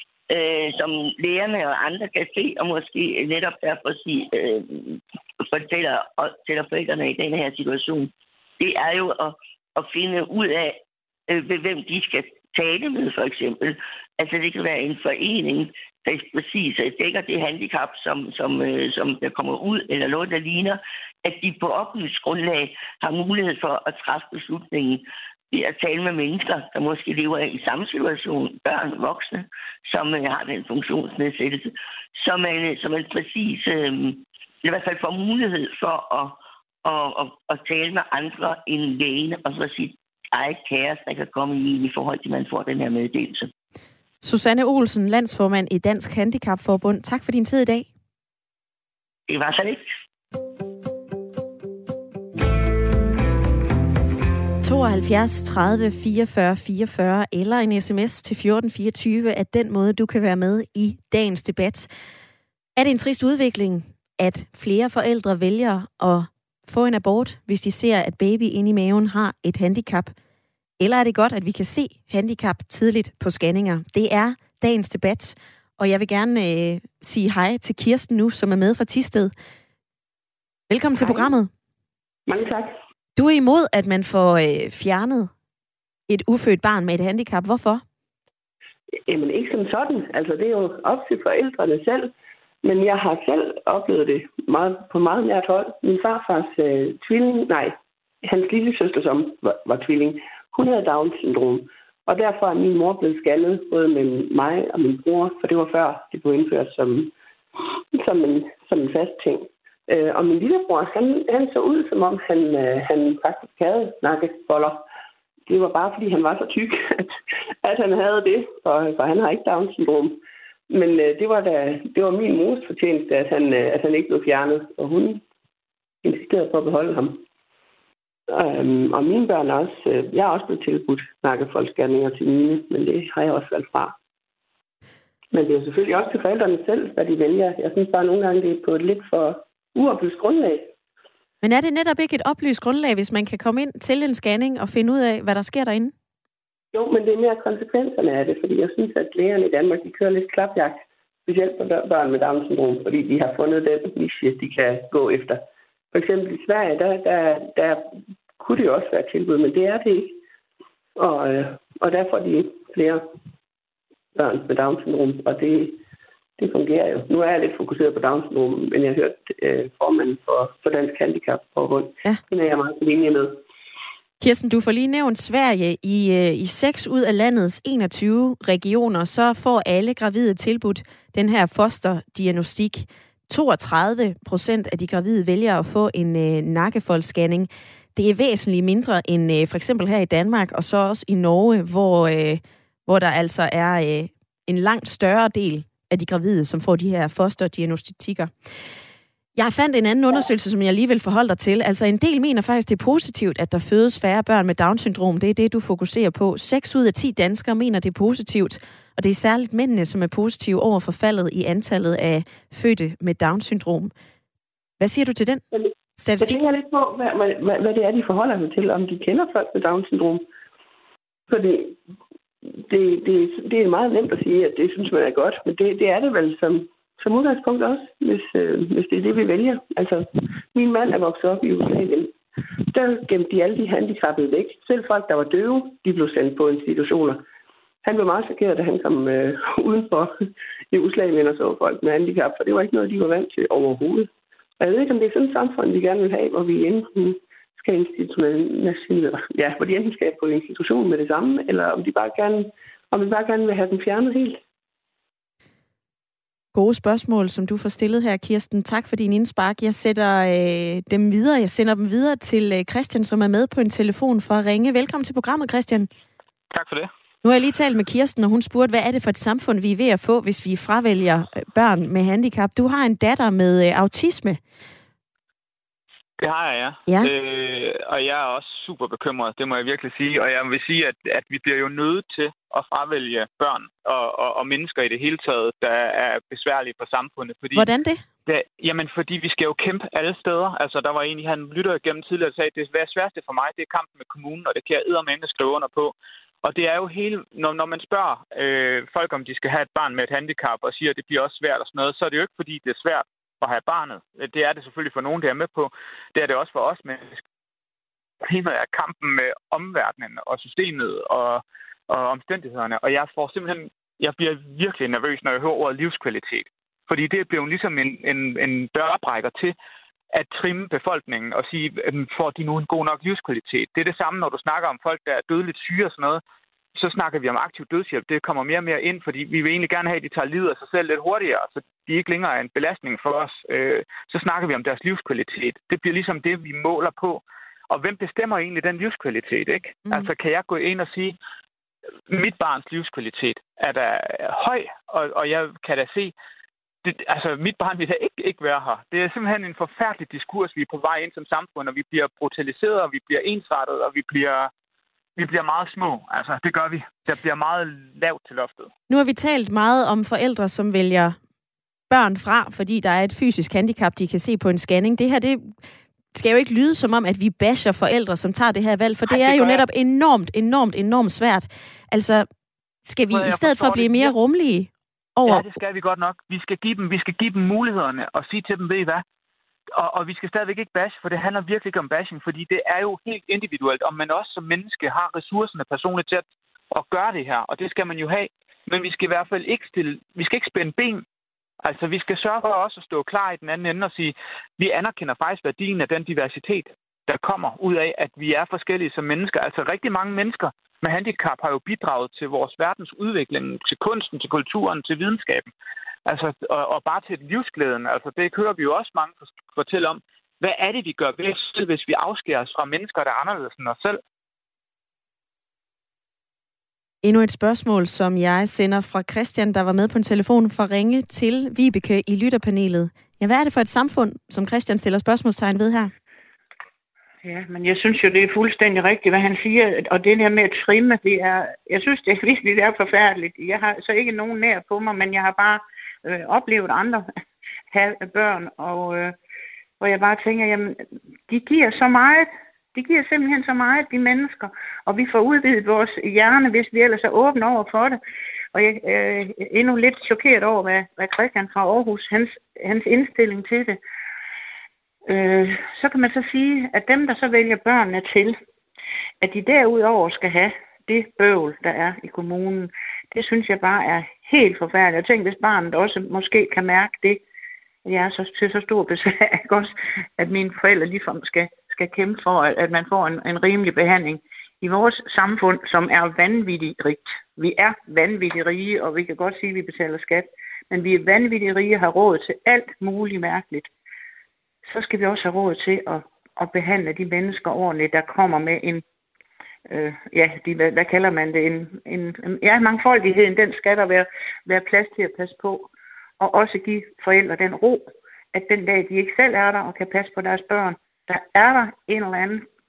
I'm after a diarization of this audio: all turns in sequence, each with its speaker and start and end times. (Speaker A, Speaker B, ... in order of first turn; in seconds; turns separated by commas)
Speaker A: 0.3-43.5, Speaker B: 44.2-47.9, Speaker A: 49.3-49.9, Speaker B: 54.6-61.9, Speaker B: 62.8-70.1, Speaker B: 70.8-79.3, Speaker B: 80.7-81.5, Speaker C: 81.0-81.3, Speaker C: 82.3-82.8, Speaker B: 83.2-85.3, Speaker B: 86.1-87.8, Speaker C: 89.1-107.1, Speaker C: 107.9-114.8, Speaker C: 115.5-125.2, Speaker C: 126.0-127.2, Speaker C: 128.3-134.0, Speaker C: 135.3-140.7, Speaker B: 141.4-145.9, Speaker C: 146.7-157.8, Speaker C: 158.4-160.2, Speaker C: 161.0-163.0, Speaker C: 164.1-165.8, Speaker C: 166.4-173.4, Speaker B: 174.2-198.3, Speaker B: 199.4-213.9, Speaker B: 214.8-215.4, Speaker C: 215.6-220.3, Speaker B: 216.0-216.4, Speaker C: 221.3-221.8, Speaker C: 222.5-232.2, Speaker C: 232.7-237.2, Speaker C: 237.8-240.1, Speaker C: 240.7-254.4, Speaker B: 256.5-265.9, Speaker D: 266.5-266.9, Speaker B: 267.2-274.4, Speaker D: 276.2-287.7, Speaker B: 287.6-288.0, Speaker D: 288.3-307.2, Speaker D: 308.2-319.6, Speaker D: 320.1-326.2, Speaker D: 326.8-341.2, Speaker D: 342.1-346.1, Speaker D: 346.8-354.5, Speaker D: 355.2-358.7, Speaker B: 358.9-361.2, Speaker B: 361.9-365.6, Speaker B: 366.1-372.3, Speaker D: 369.1-369.6, Speaker B: 372.8-375.4, Speaker D: 373.1-374.1, Speaker D: 375.3-379.0, Speaker D: 379.8-391.1, Speaker D: 391.6-405.5, Speaker D: 406.1-414.0, Speaker B: 417.0-425.9, Speaker E: 427.2-437.1, Speaker E: 437.7-439.1, Speaker E: 439.8-448.0, Speaker E: 448.5-453.8, Speaker E: 455.1-458.4, Speaker E: 459.2-467.2, Speaker E: 467.9-483.7, Speaker E: 484.6-488.8, Speaker E: 489.7-495.7, Speaker E: 496.2-502.5